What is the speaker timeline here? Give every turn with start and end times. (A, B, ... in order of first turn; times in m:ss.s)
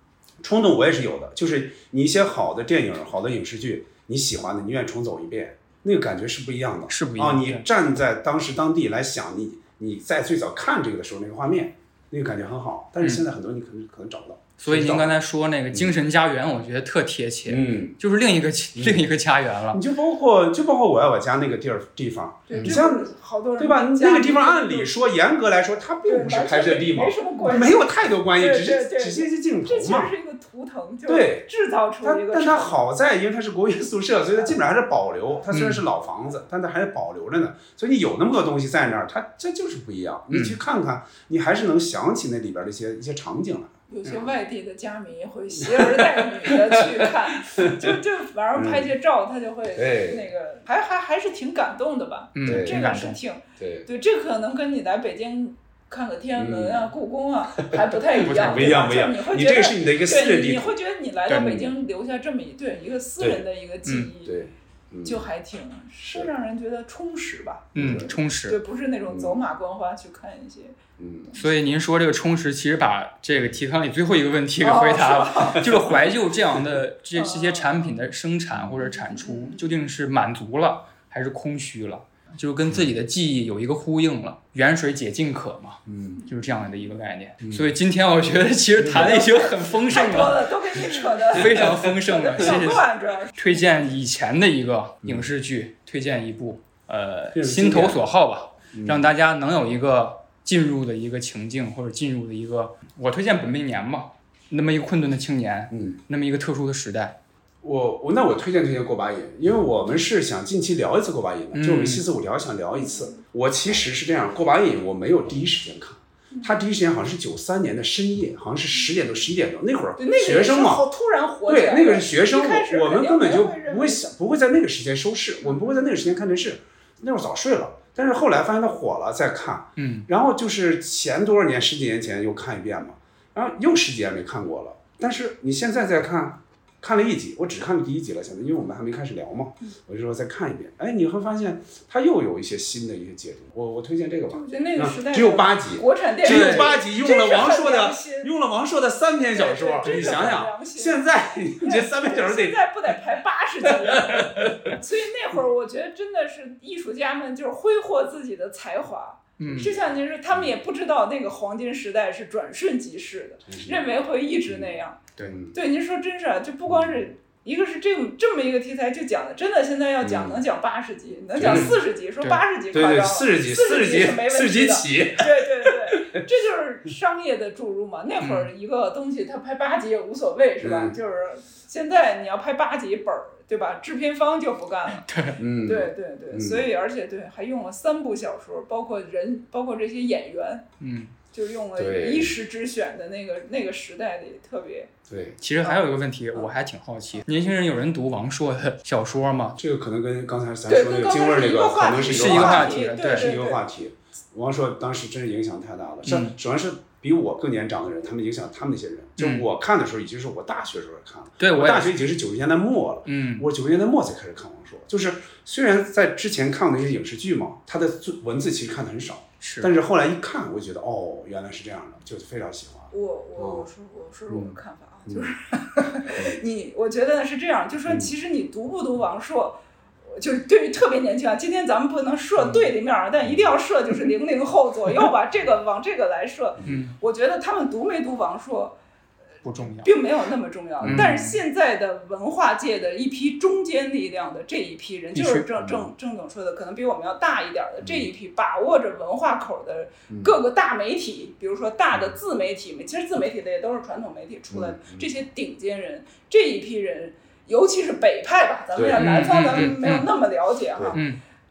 0:00.4-0:15.2 A
0:06.9-0:07.6 B
0:14.6-0:19.8 B
0:17.5-0:18.0 A
0:18.8-0:19.0 A
0:19.7-0:30.1 A
0:22.5-0:25.1 C
0:26.0-0:32.8 C
0:31.1-0:31.5 A
0:32.0-0:43.8 A
0:35.5-0:35.8 B
0:40.3-0:40.6 B
0:43.9-1:04.3 C
0:45.6-0:47.9 A
0:48.5-0:48.9 A
0:49.7-0:50.3 A
0:52.4-0:53.2 B
0:52.4-0:52.8 A
0:53.6-0:53.9 A
0:56.3-0:56.9 A
0:58.2-0:58.8 B
0:58.4-1:00.8 A
1:01.3-1:01.6 B
1:01.3-1:01.7 A
1:03.2-1:03.4 A
1:04.2-1:05.2 A
1:05.0-1:07.8 C
1:07.7-1:08.6 B
1:07.8-1:08.1 A
1:08.5-1:10.8 C
1:09.1-1:09.4 A
1:11.0-1:11.3 A
1:11.4-1:30.5 B
1:14.6-1:15.8 C
1:17.1-1:17.7 C
1:18.9-1:19.6 C
1:25.9-1:26.2 A
1:27.4-1:27.7 A
1:28.8-1:29.3 A
1:28.9-1:33.5 C
1:31.3-1:47.2 B
1:31.4-1:31.9 A
1:35.0-1:35.3 A
1:37.3-1:38.0 A
1:38.7-1:39.1 A
1:45.7-1:46.0 A
1:47.6-2:00.8 A
1:51.5-1:52.0 B
2:00.0-2:04.1 C
2:01.5-2:32.6 A
2:05.4-2:05.9 C
2:09.8-2:10.0 B
2:24.3-2:28.3 C
2:26.2-2:26.8 B
2:29.3-2:31.0 C
2:31.6-2:45.0 C
2:33.8-2:34.5 A
2:39.4-2:39.7 B
2:40.3-2:40.6 A
2:43.5-2:43.9 A
2:45.2-2:45.6 A
2:45.5-3:05.0 C
2:46.7-2:47.1 A
2:50.0-2:50.4 A
2:51.3-2:51.8 A
2:51.4-2:52.4 B
2:52.7-2:56.2 A
2:58.2-2:58.5 B
3:00.6-3:01.0 A
3:05.0-3:05.4 B
3:05.4-3:06.7 A
3:05.6-3:10.6 C
3:10.8-3:11.1 B
3:11.3-3:14.9 C
3:11.8-3:12.4 A
3:15.1-3:15.4 A
3:15.4-3:19.6 B
3:19.6-3:43.6 A
3:20.7-3:23.6 C
3:22.1-3:23.3 B
3:26.0-3:26.3 B
3:29.2-3:29.4 B
3:31.4-3:32.0 B
3:33.0-3:33.4 B
3:39.4-3:39.7 B
3:42.9-3:58.8 C
3:44.3-3:45.3 A
3:46.1-3:46.4 A
3:47.9-3:48.1 A
3:53.2-3:53.5 A
3:56.6-3:56.9 B
3:59.4-3:59.9 B
3:59.8-4:21.0 C
4:00.8-4:01.1 A
4:00.8-4:01.4 B
4:05.1-4:05.5 B
4:05.6-4:05.9 A
4:07.8-4:08.1 A
4:10.1-4:10.4 A
4:14.5-4:15.1 A
4:18.8-4:19.8 A
4:19.0-4:20.1 B
4:20.9-4:21.2 B